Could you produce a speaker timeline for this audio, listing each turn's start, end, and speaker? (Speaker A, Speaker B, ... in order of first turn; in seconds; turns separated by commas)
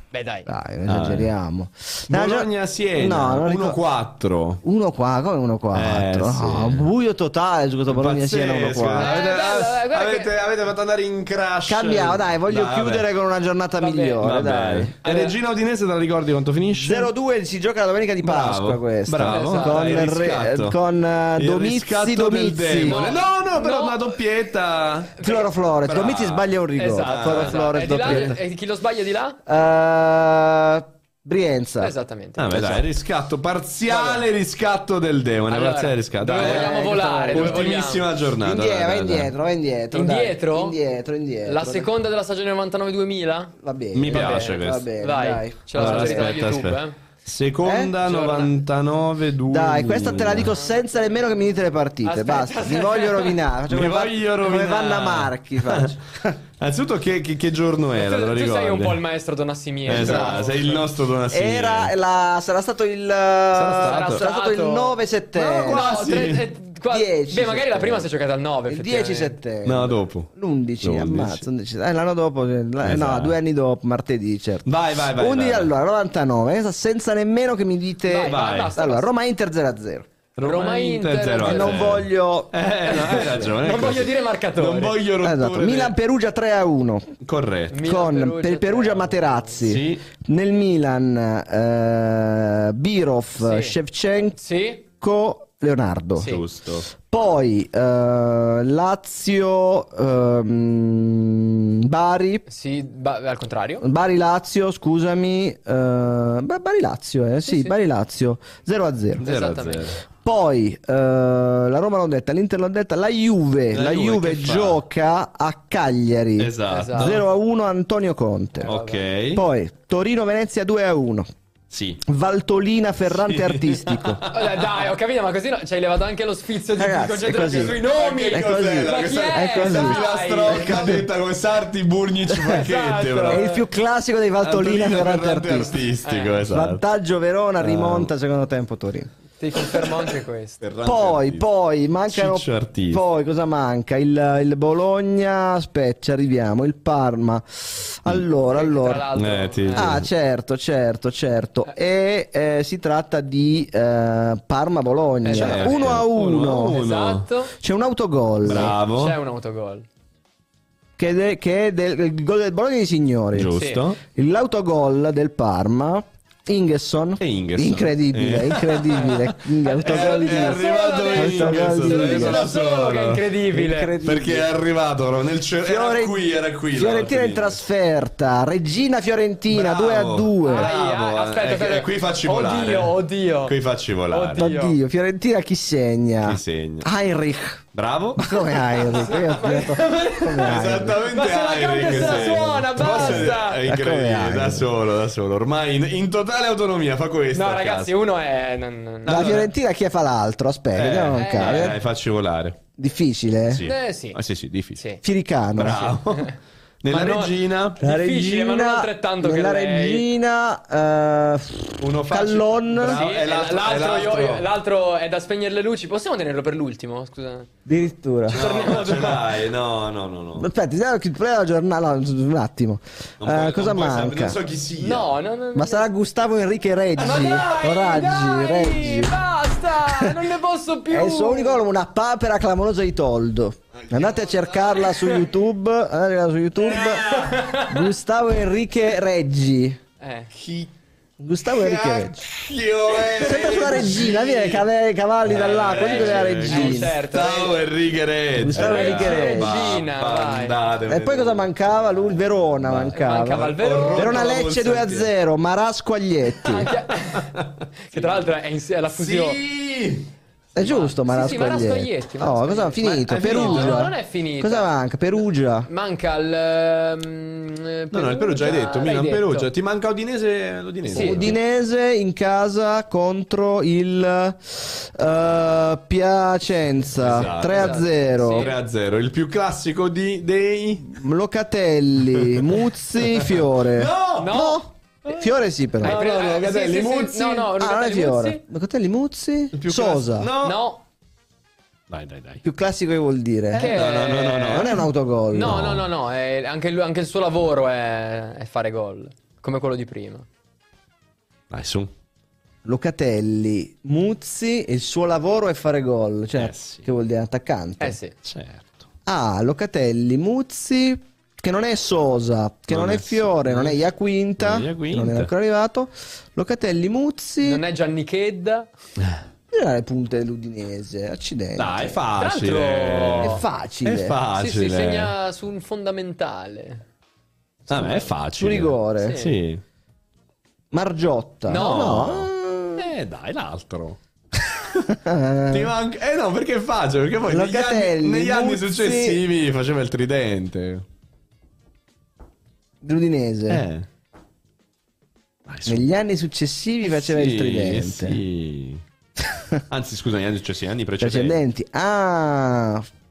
Speaker A: 0.1-0.5, Speaker B: 0.5-3.8, Speaker C: 0.9-1.3, Speaker C: 2.1-4.6, Speaker B: 4.6-9.2, Speaker C: 5.7-6.9, Speaker C: 7.9-13.1, Speaker A: 9.0-10.3, Speaker B: 11.7-15.0, Speaker A: 13.8-14.3, Speaker C: 14.2-17.1, Speaker A: 15.0-15.4, Speaker B: 16.8-23.1, Speaker C: 18.2-20.8, Speaker A: 19.3-19.9, Speaker C: 21.4-25.2, Speaker A: 22.8-24.1, Speaker A: 25.2-29.4, Speaker B: 25.2-28.4, Speaker C: 25.9-26.4, Speaker C: 27.0-28.4, Speaker B: 29.5-31.9, Speaker A: 31.8-32.8, Speaker C: 32.4-39.3, Speaker B: 32.5-32.8, Speaker B: 33.9-34.2, Speaker A: 35.5-38.1, Speaker B: 36.3-37.8, Speaker B: 38.4-41.9, Speaker A: 39.9-40.8, Speaker A: 41.5-43.6, Speaker B: 43.6-46.4, Speaker C: 43.9-44.9, Speaker A: 44.1-47.0, Speaker C: 45.7-50.6, Speaker B: 47.6-48.0, Speaker A: 48.0-48.5, Speaker B: 49.5-56.4, Speaker A: 50.5-50.8, Speaker A: 52.0-53.4, Speaker C: 53.7-59.0, Speaker A: 57.9-60.8, Speaker C: 59.9-61.9, Speaker B: 59.9-60.5, Speaker B: 61.3-65.9, Speaker C: 63.5-64.3, Speaker A: 63.8-65.0, Speaker C: 65.3-66.5, Speaker A: 65.6-69.4, Speaker B: 66.9-68.1, Speaker B: 68.7-80.1, Speaker C: 69.6-70.3, Speaker C: 70.8-71.5, Speaker C: 72.8-73.4, Speaker C: 74.7-75.7, Speaker A: 78.0-79.1, Speaker C: 78.2-78.7, Speaker C: 80.4-85.9, Speaker A: 80.4-82.0, Speaker B: 81.4-83.6, Speaker A: 82.9-85.0, Speaker B: 85.2-87.1, Speaker C: 87.2-87.8, Speaker A: 87.7-89.8, Speaker B: 87.7-94.4, Speaker C: 89.6-90.0, Speaker A: 93.4-93.8, Speaker A: 94.4-94.8, Speaker B: 94.9-96.4, Speaker A: 96.2-96.4, Speaker C: 96.2-96.9, Speaker B: 97.0-102.5, Speaker A: 102.5-103.9, Speaker B: 103.8-109.2, Speaker A: 107.4-107.7, Speaker A: 109.2-109.9, Speaker C: 109.2-110.0, Speaker B: 110.2-118.8, Speaker C: 113.7-114.8, Speaker C: 116.4-117.2, Speaker A: 116.7-117.2, Speaker A: 118.6-119.0, Speaker C: 118.6-119.5, Speaker B: 119.3-121.3, Speaker C: 121.7-122.0, Speaker B: 122.0-124.2, Speaker C: 123.3-124.5, Speaker A: 124.3-131.0, Speaker B: 126.7-130.9, Speaker C: 127.4-133.5, Speaker A: 132.4-133.6, Speaker B: 133.3-135.9, Speaker C: 134.4-136.8, Speaker A: 136.0-136.5, Speaker B: 136.5-139.1, Speaker C: 137.6-138.1, Speaker A: 139.4-140.6, Speaker C: 140.6-141.5, Speaker B: 140.8-149.1, Speaker C: 142.1-143.0, Speaker A: 148.5-150.0, Speaker C: 149.2-150.1, Speaker B: 149.7-156.8, Speaker A: 155.2-157.6, Speaker C: 155.3-157.3, Speaker B: 157.6-158.8, Speaker C: 158.5-159.2, Speaker A: 158.5-159.9, Speaker B: 161.0-172.5, Speaker C: 163.3-164.0, Speaker A: 163.5-163.8, Speaker C: 167.2-173.2, Speaker A: 169.6-173.9, Speaker B: 173.5-174.5, Speaker C: 174.0-177.6, Speaker B: 175.6-180.7, Speaker C: 179.5-184.5, Speaker A: 180.4-183.6, Speaker A: 184.1-184.8, Speaker B: 184.3-187.7, Speaker C: 186.2-186.9, Speaker C: 187.7-189.2, Speaker B: 188.2-191.1, Speaker A: 188.9-193.6, Speaker C: 190.4-197.9, Speaker B: 191.8-194.7, Speaker A: 197.3-199.3, Speaker C: 199.0-199.5, Speaker B: 199.1-201.8, Speaker C: 200.7-202.6, Speaker A: 201.1-201.8, Speaker B: 202.8-203.7, Speaker C: 203.5-204.8, Speaker A: 203.6-204.2, Speaker A: 204.8-205.0, Speaker B: 205.0-205.9, Speaker C: 205.6-207.8, Speaker A: 205.7-206.4, Speaker A: 206.9-210.1, Speaker B: 207.8-213.0, Speaker C: 211.8-214.5, Speaker A: 212.9-217.5, Speaker B: 217.7-218.4, Speaker C: 218.3-220.5, Speaker A: 218.3-219.4, Speaker B: 220.4-224.4, Speaker C: 223.2-225.1, Speaker A: 224.8-225.8, Speaker B: 225.6-229.2, Speaker A: 227.0-231.6, Speaker B: 229.8-230.3, Speaker B: 230.9-239.8, Speaker C: 233.8-234.9, Speaker C: 236.6-237.5, Speaker A: 237.1-237.8, Speaker A: 240.0-240.3, Speaker C: 240.3-240.7, Speaker B: 241.2-242.2, Speaker C: 241.5-244.7, Speaker B: 243.1-247.0, Speaker A: 243.4-244.0, Speaker C: 245.2-251.5, Speaker A: 245.3-247.6, Speaker B: 248.4-249.8, Speaker A: 248.5-250.6, Speaker B: 250.9-256.7, Speaker C: 252.6-255.1, Speaker A: 252.9-254.2, Speaker A: 256.4-259.4, Speaker C: 257.1-258.3, Speaker C: 258.9-260.1, Speaker B: 260.6-265.7, Speaker A: 260.6-264.7, Speaker C: 263.2-263.9, Speaker A: 265.7-269.5, Speaker C: 267.9-271.4, Speaker A: 270.9-271.3, Speaker B: 270.9-278.5, Speaker C: 276.9-281.0, Speaker A: 277.3-278.6, Speaker B: 280.9-286.0, Speaker C: 282.2-284.4, Speaker A: 284.2-284.6, Speaker A: 285.8-288.4, Speaker C: 285.8-287.5, Speaker B: 287.6-290.3, Speaker C: 289.5-290.6, Speaker A: 290.4-290.8, Speaker C: 291.9-292.4, Speaker B: 292.4-295.8, Speaker A: 293.5-300.3, Speaker C: 293.6-295.9, Speaker C: 301.5-301.9, Speaker B: 302.6-308.0, Speaker C: 306.4-306.9, Speaker A: 307.8-308.1, Speaker C: 308.2-308.9, Speaker B: 309.1-317.6, Speaker C: 312.7-313.8, Speaker C: 314.4-315.3, Speaker A: 317.4-318.7, Speaker B: 319.5-322.0, Speaker C: 321.6-325.1, Speaker A: 322.2-323.4, Speaker B: 323.2-324.2, Speaker A: 324.3-326.8, Speaker A: 327.7-328.1, Speaker C: 327.7-329.6, Speaker B: 328.4-329.3, Speaker A: 329.0-329.4, Speaker B: 330.7-332.9, Speaker A: 331.5-332.0, Speaker C: 331.5-334.0, Speaker B: 334.9-335.7, Speaker C: 335.5-340.9, Speaker B: 337.3-339.2, Speaker B: 342.8-343.6, Speaker C: 343.5-343.9, Speaker C: 345.5-345.8, Speaker B: 345.7-348.2, Speaker C: 346.8-348.8, Speaker C: 349.7-351.4, Speaker B: 351.0-352.9